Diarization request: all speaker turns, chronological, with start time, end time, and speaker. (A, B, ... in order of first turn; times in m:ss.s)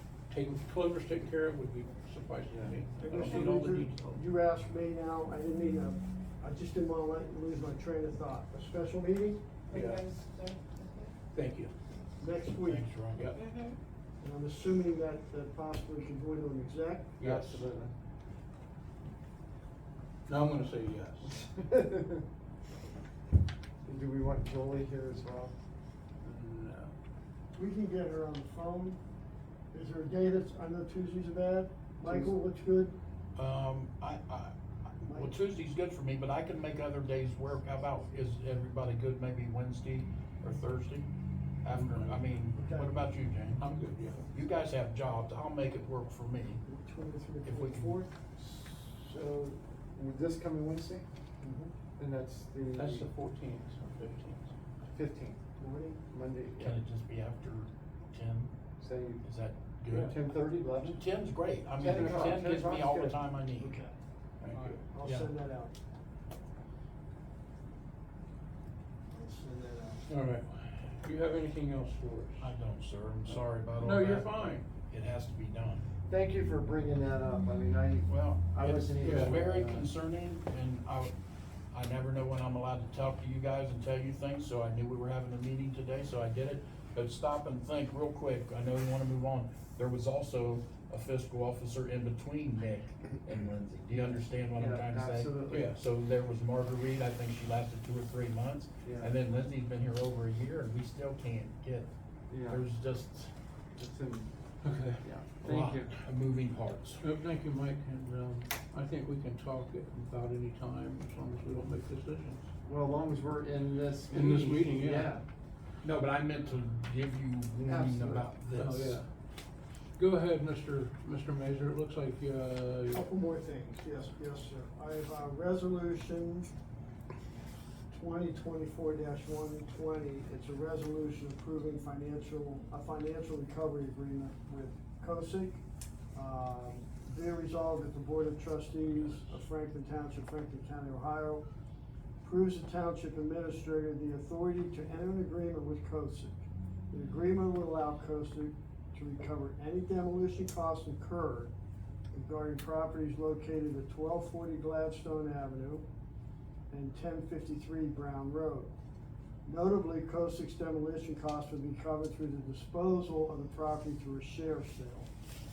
0:00.3-0:04.2 A
0:02.5-0:02.7 B
0:03.0-0:09.5 C
0:03.2-0:03.5 D
0:09.7-0:11.1 D
0:09.7-0:10.0 A
0:11.3-0:11.7 A
0:12.2-0:13.0 C
0:12.6-0:13.3 E
0:13.1-0:13.4 A
0:13.3-0:13.8 D
0:14.2-0:17.2 C
0:17.2-0:17.7 A
0:17.2-0:17.9 B
0:20.3-0:21.4 A
0:21.3-0:22.2 B
0:23.8-0:25.5 B
0:26.2-0:26.9 A
0:27.5-0:29.0 C
0:29.7-0:33.0 C
0:32.0-0:32.3 B
0:33.3-0:41.1 E
0:35.1-0:35.4 C
0:41.6-0:43.7 E
0:41.7-0:42.2 A
0:42.5-0:43.0 C
0:43.6-0:44.3 A
0:44.3-0:46.6 E
0:46.6-0:48.1 C
0:47.4-0:48.0 E
0:48.4-0:51.0 B
0:51.4-0:51.7 C
0:52.0-0:53.1 B
0:52.7-0:54.5 A
0:54.8-0:55.4 B
0:55.6-0:56.0 C
0:56.1-0:56.7 B
0:56.6-0:58.5 E
0:58.8-0:59.2 B
0:59.2-1:00.2 E
0:59.9-1:01.0 B
1:00.8-1:03.8 E
1:01.8-1:03.2 B
1:03.6-1:03.9 C
1:04.4-1:05.3 E
1:04.4-1:04.8 A
1:04.9-1:05.7 C
1:09.1-1:10.0 C
1:10.1-1:12.5 A
1:12.4-1:15.8 E
1:13.8-1:14.7 A
1:16.1-1:19.9 B
1:18.1-1:21.1 E
1:19.0-1:19.3 A
1:21.7-1:41.9 E
1:33.9-1:35.7 B
1:35.5-1:35.8 A
1:38.8-1:39.1 B
1:42.3-1:42.6 B
1:42.5-1:43.3 E
1:43.8-1:44.3 B
1:44.6-1:45.0 A
1:44.9-1:46.0 B
1:45.4-1:47.0 E
1:47.0-1:52.5 A
1:52.6-1:55.2 B
1:54.1-1:55.1 A
1:55.8-1:59.0 E
1:57.6-1:58.3 B
1:58.6-1:59.0 A
2:00.0-2:03.0 A
2:02.9-2:06.5 C
2:07.9-2:15.6 C
2:16.1-2:21.4 C
2:22.2-2:31.5 C
2:32.1-2:35.8 C
2:36.7-2:38.7 C
2:39.4-2:45.1 C